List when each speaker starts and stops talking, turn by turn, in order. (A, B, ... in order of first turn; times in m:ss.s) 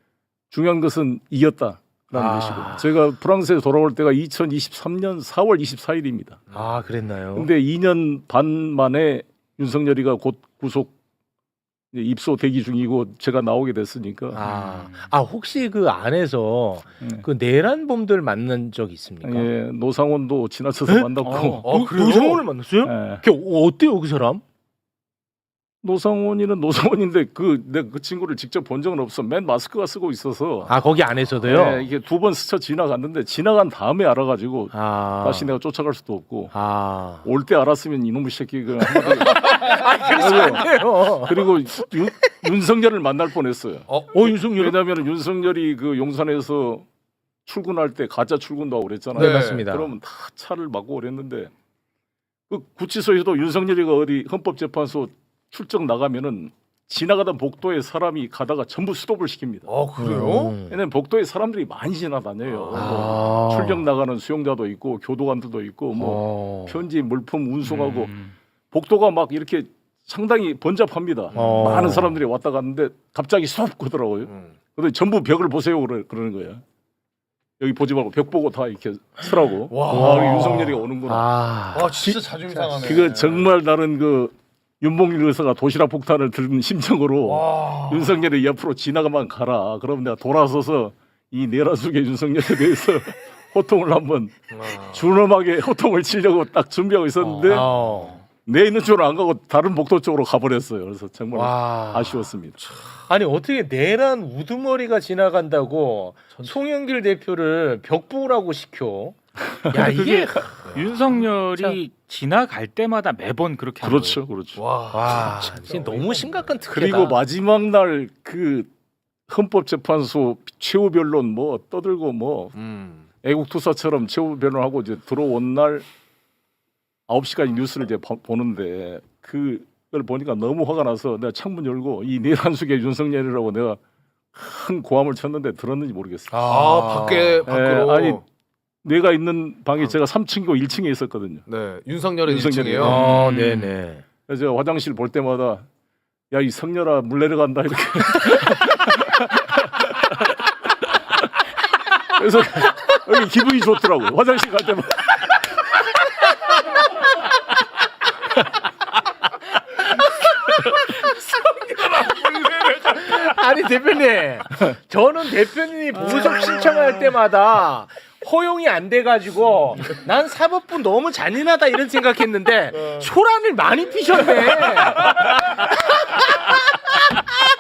0:00.5-0:06.5 A
0:02.1-0:02.9 B
0:06.5-0:06.8 C
0:06.5-0:07.5 B
0:07.4-0:10.9 A
0:11.9-0:14.5 A
0:14.3-0:19.5 B
0:14.4-0:15.1 D
0:17.0-0:17.3 A
0:19.2-0:21.7 A
0:20.9-0:24.4 B
0:21.3-0:21.6 D
0:21.6-0:22.4 C
0:22.8-0:23.2 A
0:25.8-0:30.7 A
0:30.7-0:31.9 B
0:31.4-0:36.5 A
0:34.7-0:35.5 B
0:36.5-0:37.3 B
0:37.2-0:46.9 A
0:39.0-0:41.9 B
0:39.4-0:39.8 C
0:40.3-0:40.6 C
0:43.9-0:44.3 C
0:44.1-0:44.8 B
0:47.5-0:51.5 A
0:49.1-0:49.9 B
0:49.2-0:49.7 C
0:52.5-0:59.7 A
0:59.7-1:00.5 C
1:00.0-1:00.8 B
1:00.7-1:08.2 A
1:02.5-1:02.9 C
1:02.7-1:03.8 B
1:06.0-1:06.8 B
1:07.7-1:08.3 D
1:08.7-1:16.6 A
1:11.3-1:11.7 C
1:11.4-1:12.2 B
1:14.3-1:14.6 C
1:17.6-1:21.3 A
1:19.7-1:20.7 C
1:19.9-1:22.0 B
1:21.7-1:23.5 C
1:22.0-1:37.7 A
1:27.3-1:28.2 C
1:34.5-1:35.0 C
1:37.2-1:38.2 B
1:38.4-1:42.6 A
1:41.3-1:42.3 B
1:42.6-1:43.0 C
1:43.1-1:50.5 B
1:49.7-1:54.2 D
1:53.8-1:54.6 A
1:54.6-1:56.5 C
1:54.9-1:57.2 B
1:56.7-1:58.7 A
1:59.3-2:02.6 A
2:02.6-2:03.1 C
2:03.2-2:05.9 A
2:07.1-2:13.8 A
2:14.3-2:16.3 A
2:16.3-2:17.4 B
2:16.5-2:18.2 C
2:17.5-2:18.2 A
2:18.8-2:21.4 A
2:21.5-2:23.0 C
2:22.3-2:23.2 A
2:22.8-2:24.0 B
2:23.0-2:23.8 D
2:24.3-2:25.7 A
2:26.3-2:30.3 A
2:32.1-2:35.3 A
2:40.5-2:57.3 B
2:41.8-2:43.2 C
2:52.7-2:53.1 C
2:54.6-2:55.3 C